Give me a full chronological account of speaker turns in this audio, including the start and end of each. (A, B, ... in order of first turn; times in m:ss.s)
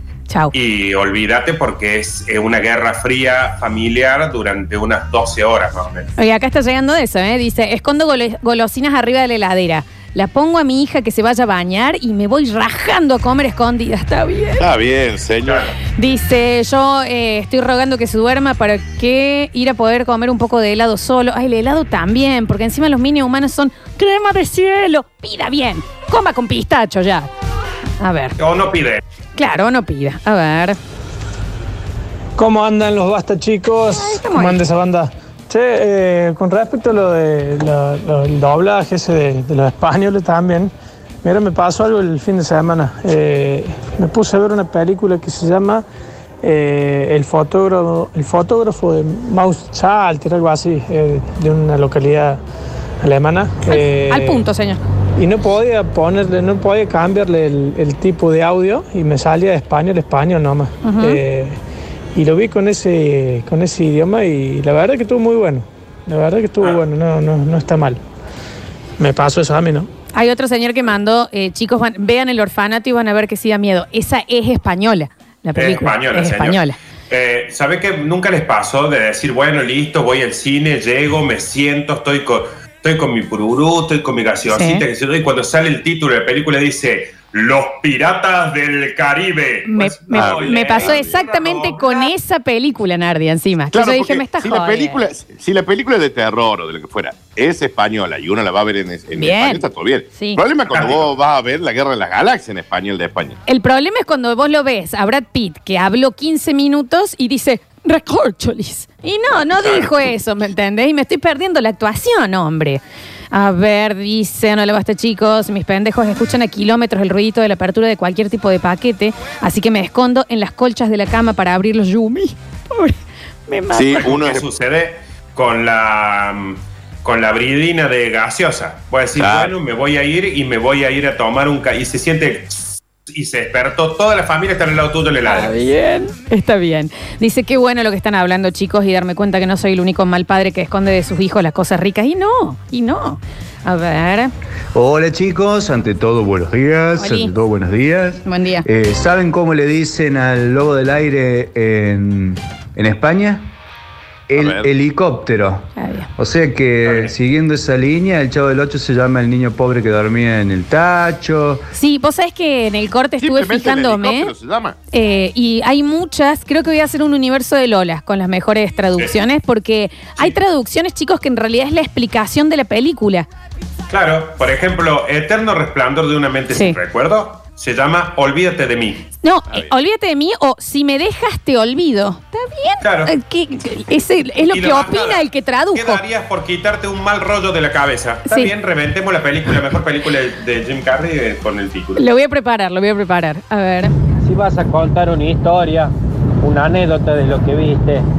0:00.5-0:06.1 A
0:06.2-0:14.6 B
0:14.6-0:15.7 C
0:15.4-0:15.7 A
0:16.0-0:27.3 B
0:28.0-0:28.4 B
0:28.4-0:29.0 A
0:29.4-0:30.8 B
0:32.4-0:40.7 D
0:34.0-0:34.6 B
0:41.2-0:45.8 D
0:46.4-0:52.4 D
0:53.0-0:54.4 D
0:53.7-0:54.8 B
0:55.2-1:01.6 D
1:00.8-1:01.2 B
1:02.1-1:08.0 D
1:09.0-1:09.9 D
1:10.1-1:16.8 B
1:15.6-1:32.1 A
1:24.5-1:24.8 B
1:29.7-1:35.0 B
1:30.1-1:31.1 C
1:33.7-1:43.4 C
1:39.1-1:40.4 B
1:40.7-1:41.1 A
1:43.5-1:52.8 B
1:53.3-2:02.9 B
2:03.5-2:04.1 B
2:03.7-2:04.4 C
2:04.0-2:15.5 A
2:09.2-2:09.5 C
2:15.2-2:24.3 B
2:24.7-2:33.5 E
2:27.0-2:27.3 B
2:28.2-2:28.6 B
2:34.3-2:41.6 E
2:34.3-2:34.7 C
2:35.8-2:36.1 B
2:41.7-2:44.3 B
2:43.2-2:44.8 C
2:44.9-2:53.3 B
2:53.9-2:59.0 A
2:59.2-3:06.0 B
3:02.8-3:03.1 A
3:04.4-3:12.0 A
3:08.3-3:08.5 B
3:12.0-3:13.9 B
3:14.3-3:15.9 F
3:16.4-3:18.0 F